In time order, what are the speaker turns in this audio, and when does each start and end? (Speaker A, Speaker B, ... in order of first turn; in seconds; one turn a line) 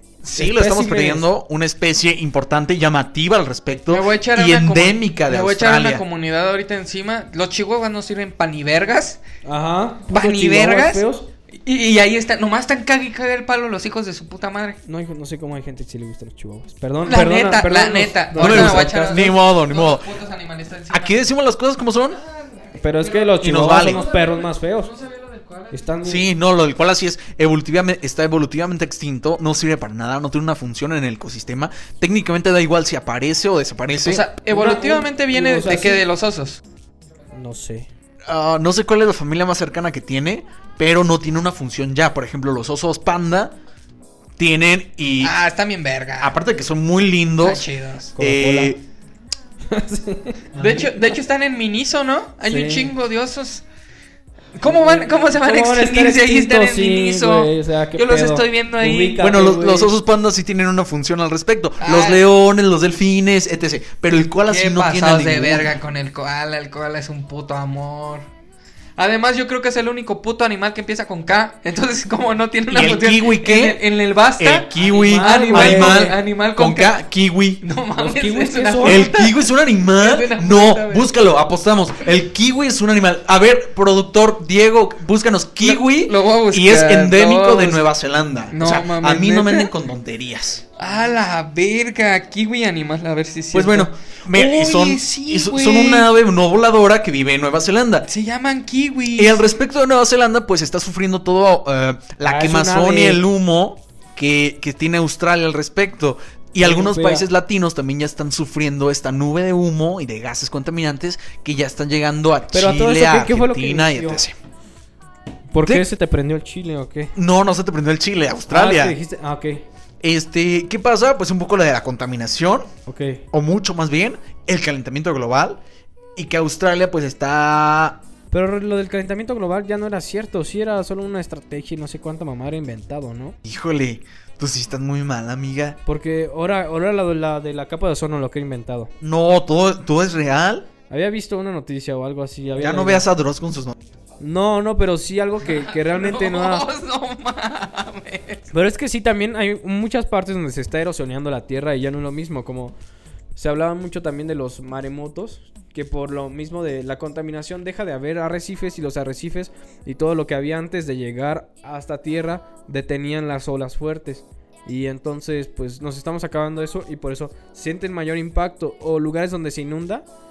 Speaker A: 0.2-6.0
Speaker B: 0.3-1.3
Speaker C: 3.9-9.2
Speaker B: 9.4-11.2
Speaker C: 10.1-11.1
Speaker C: 11.6-14.8
Speaker B: 14.8-19.2
Speaker C: 17.1-21.2
Speaker A: 18.4-20.1
Speaker A: 20.9-22.2
Speaker C: 22.1-25.9
Speaker B: 22.8-24.9
Speaker A: 23.4-24.0
Speaker B: 25.7-26.2
Speaker A: 26.0-34.2
Speaker C: 34.0-36.6
Speaker B: 34.5-36.0
Speaker B: 37.3-37.9
Speaker A: 38.3-43.5
Speaker A: 44.4-45.4
Speaker C: 45.2-46.4
Speaker A: 46.2-47.6
Speaker C: 47.4-48.1
Speaker B: 48.2-48.7
Speaker A: 48.2-48.8
Speaker B: 49.7-50.6
Speaker C: 50.5-53.6
Speaker B: 52.4-52.9
Speaker C: 54.5-59.2
Speaker B: 54.6-60.0
Speaker A: 59.2-65.7
Speaker C: 61.8-62.2
Speaker C: 64.5-68.3
Speaker C: 69.0-77.0
Speaker A: 72.7-73.8
Speaker A: 74.4-77.6
Speaker B: 74.8-76.1
Speaker C: 77.6-79.4
Speaker B: 78.0-79.0
Speaker A: 78.8-90.6
Speaker C: 80.0-81.1
Speaker C: 85.6-87.9
Speaker C: 88.5-89.7
Speaker C: 90.8-96.1
Speaker A: 93.5-98.1
Speaker C: 98.1-99.5
Speaker A: 99.2-114.3
Speaker B: 102.2-103.2
Speaker B: 106.6-107.2
Speaker B: 112.5-114.2
Speaker B: 115.5-117.1
Speaker A: 117.1-119.0
Speaker B: 118.5-119.6
Speaker A: 120.0-122.7
Speaker B: 122.9-123.2
Speaker A: 123.3-125.6
Speaker A: 126.2-128.0
Speaker B: 128.3-133.4
Speaker A: 133.4-135.8
Speaker B: 135.9-138.9
Speaker A: 139.0-140.7
Speaker B: 140.9-143.0
Speaker A: 142.6-143.8
Speaker B: 144.2-146.6
Speaker C: 145.4-148.5
Speaker B: 148.5-152.7
Speaker B: 153.4-170.0